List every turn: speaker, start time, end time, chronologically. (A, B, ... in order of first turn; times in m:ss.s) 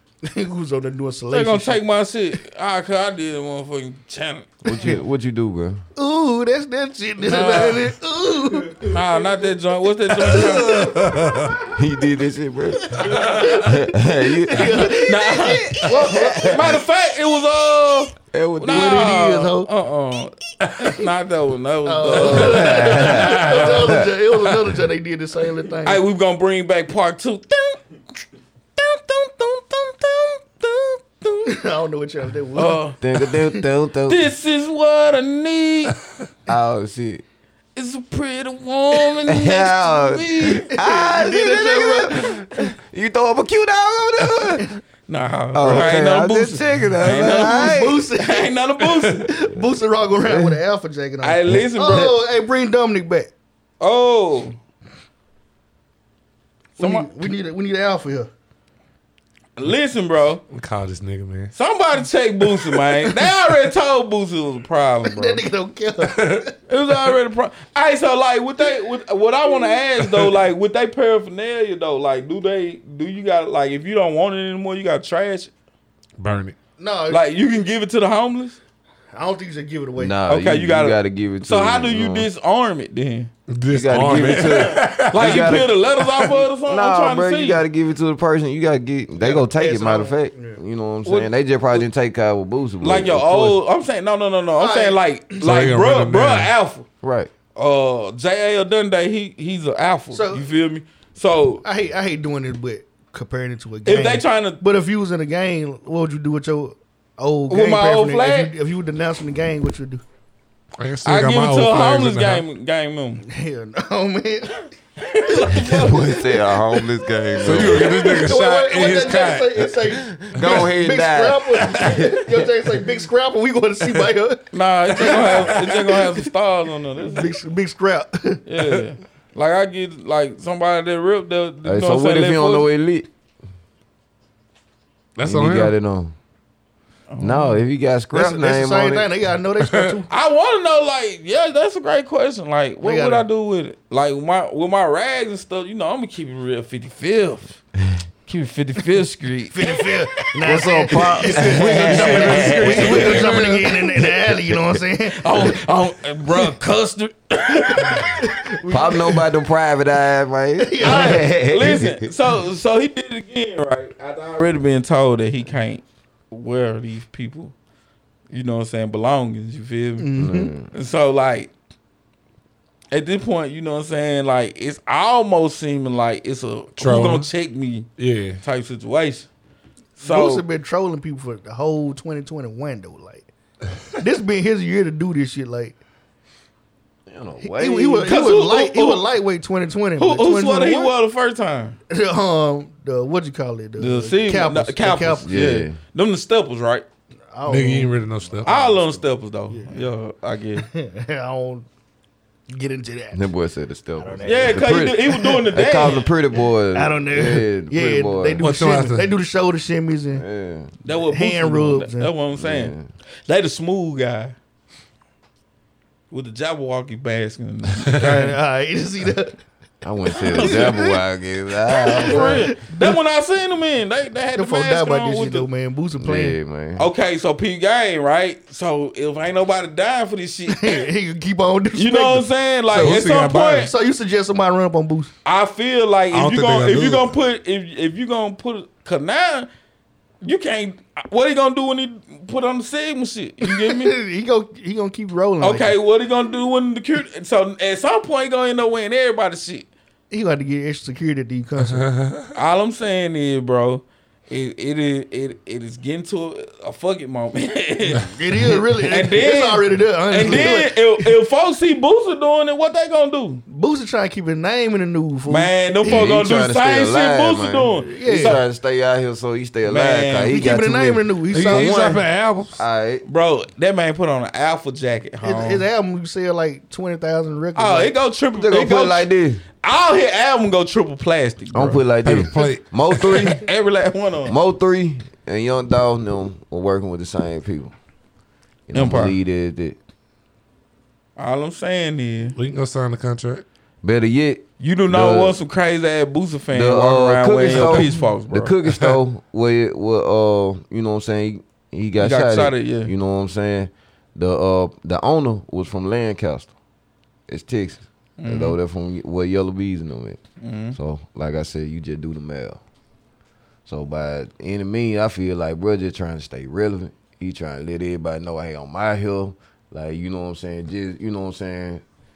0:00.2-0:01.8 A
0:01.3-0:04.5 B
0:04.6-0:05.8 C
0:06.0-0:09.0 A
0:07.2-0:07.8 B
0:08.9-0:10.9 B
0:10.2-0:11.6 D
0:10.5-0:10.8 A
0:11.6-0:16.8 C
0:13.0-0:16.6 A
0:13.2-0:13.5 D
0:15.0-0:23.6 B
0:18.3-0:19.2 C
0:18.6-0:19.7 A
0:21.8-0:26.0 A
0:22.1-0:24.0 C
0:25.8-0:27.8 B
0:28.8-0:31.6 B
0:31.4-0:33.6 A
0:32.5-0:33.0 B
0:33.0-0:34.3 C
0:34.1-0:36.0 B
0:36.5-0:37.2 C
0:37.8-0:40.7 B
0:39.2-0:44.7 C
0:40.7-0:42.7 A
0:45.1-0:49.3 B
0:45.5-0:48.0 C
0:47.2-0:48.5 A
0:49.2-0:53.3 A
0:51.2-0:52.2 B
0:53.8-0:54.6 B
0:56.8-0:58.3 A
0:56.8-0:57.1 B
0:59.6-1:00.4 B
1:00.5-1:01.5 D
1:01.5-1:05.4 B
1:05.0-1:06.5 A
1:06.0-1:06.5 D
1:06.7-1:15.5 B
1:16.2-1:16.6 D
1:16.8-1:17.2 A
1:17.1-1:18.6 B
1:19.1-1:20.2 A
1:20.0-1:22.3 C
1:20.3-1:23.3 B
1:23.5-1:26.3 D
1:23.7-1:25.7 C
1:24.2-1:27.6 B
1:26.6-1:33.6 C
1:29.1-1:30.6 A
1:31.0-1:31.8 B
1:32.8-1:36.8 B
1:34.6-1:35.0 A
1:35.4-1:36.5 D
1:37.0-1:37.3 C
1:37.5-1:41.6 B
1:40.1-1:40.5 A
1:41.6-1:50.0 A
1:43.8-1:44.6 B
1:47.5-1:48.5 B
1:50.8-1:52.4 D
1:51.0-1:53.2 B
1:53.2-1:54.6 A
1:55.0-1:56.8 B
1:55.6-1:58.1 C
1:57.4-1:59.7 D
1:57.9-2:04.5 A
1:59.9-2:02.4 C
2:04.5-2:07.3 B
2:05.0-2:05.4 A
2:05.0-2:05.7 D
2:07.0-2:08.4 A
2:08.4-2:12.7 B
2:11.6-2:13.1 C
2:15.2-2:15.7 D
2:15.2-2:16.1 C
2:17.1-2:17.6 B
2:17.2-2:19.1 C
2:18.1-2:20.1 A
2:20.1-2:27.6 B
2:22.8-2:23.2 A
2:28.2-2:29.9 B
2:29.5-2:35.5 A
2:30.4-2:33.4 C
2:31.3-2:33.7 D
2:32.8-2:33.2 B
2:35.1-2:38.2 B
2:37.7-2:39.2 A
2:38.7-2:42.0 C
2:40.6-2:41.3 A
2:40.8-2:47.5 B
2:48.3-2:50.1 B
2:50.0-2:50.5 A
2:50.2-2:50.7 C
2:50.7-2:51.5 B
2:52.9-2:57.9 B
2:56.8-2:57.3 D
2:58.0-2:58.4 D
2:58.4-2:59.3 B
3:00.0-3:03.3 A
3:00.0-3:00.4 B
3:04.0-3:05.8 A
3:07.1-3:08.2 C
3:07.4-3:11.0 A
3:08.0-3:09.0 B
3:10.0-3:11.8 B
3:11.9-3:15.3 A
3:13.8-3:16.8 B
3:15.2-3:15.8 C
3:17.3-3:19.9 A
3:17.4-3:18.6 D
3:18.4-3:20.7 B
3:20.6-3:21.6 A
3:22.5-3:23.3 A
3:23.1-3:28.4 C
3:24.0-3:25.4 A
3:24.2-3:26.1 B
3:26.7-3:30.2 A
3:28.4-3:29.1 D
3:30.1-3:30.7 C
3:30.8-3:32.7 B
3:31.1-3:32.1 A
3:32.4-3:32.9 C
3:33.3-3:34.3 B
3:36.1-3:38.4 B
3:37.9-3:39.4 A
3:39.8-3:42.5 C
3:40.2-3:40.8 B
3:40.2-3:41.0 A
3:41.7-3:43.0 A
3:41.9-3:45.5 B
3:44.3-3:46.4 A
3:46.0-3:46.9 C
3:46.8-3:50.8 B
3:50.5-3:52.3 A
3:51.7-3:53.7 B
3:52.7-3:53.7 D
3:53.4-3:55.1 A
3:55.2-3:59.5 B
3:56.1-3:57.1 D
4:00.2-4:03.9 B
4:03.4-4:05.8 A
4:05.4-4:09.7 B
4:10.1-4:11.9 A
4:11.7-4:12.3 D
4:12.3-4:18.1 B
4:18.1-4:21.1 A
4:18.8-4:23.4 B
4:23.5-4:26.2 A
4:25.3-4:28.4 B
4:25.8-4:32.0 C
4:27.8-4:28.4 A
4:29.6-4:30.4 B
4:30.3-4:31.9 A
4:31.3-4:32.6 D
4:32.6-4:33.0 C
4:33.0-4:35.6 B
4:35.2-4:38.0 A
4:37.6-4:39.1 B
4:38.3-4:39.4 C
4:39.6-4:41.8 B
4:41.5-4:43.4 C
4:42.0-4:43.2 D
4:43.0-4:44.4 B
4:44.2-4:47.7 C
4:48.7-4:49.8 C
4:48.7-4:49.2 B
4:51.2-4:52.4 B
4:52.4-4:53.4 D
4:53.8-4:55.4 C
4:54.6-4:58.5 B
4:56.5-5:06.5 C
4:57.5-4:57.8 D
5:02.0-5:02.9 B
5:07.3-5:10.2 C
5:08.2-5:08.6 B
5:10.4-5:10.8 B
5:10.7-5:12.6 C
5:13.6-5:21.8 C